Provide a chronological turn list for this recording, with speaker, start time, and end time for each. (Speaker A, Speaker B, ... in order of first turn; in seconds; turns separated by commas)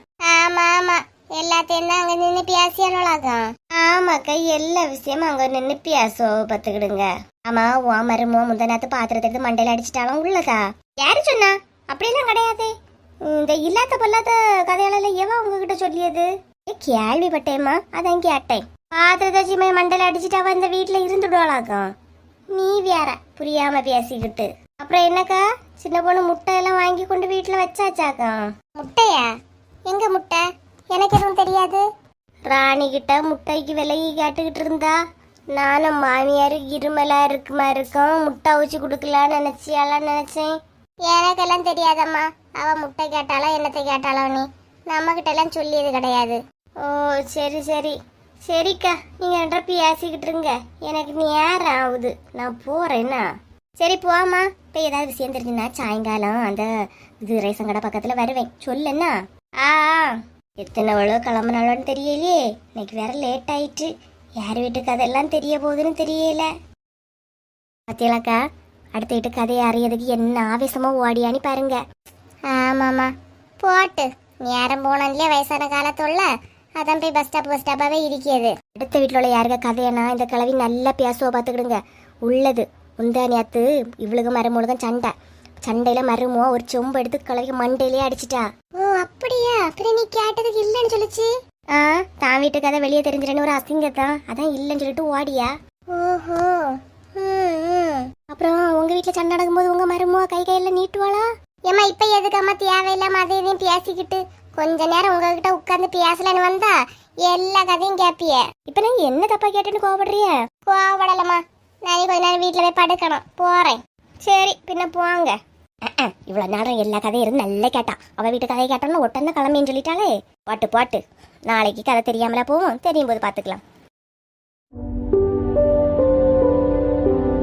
Speaker A: 0.3-12.7, Speaker A: 13.3-21.9, Speaker A: 22.5-29.3, Speaker A: 29.9-31.8, Speaker A: 32.5-35.0, Speaker A: 35.5-40.5, Speaker A: 41.1-53.2, Speaker A: 53.8-56.7, Speaker A: 57.2-63.9, Speaker A: 64.4-66.5, Speaker A: 67.9-68.4, Speaker A: 69.0-71.8, Speaker A: 72.5-85.1, Speaker A: 85.7-123.6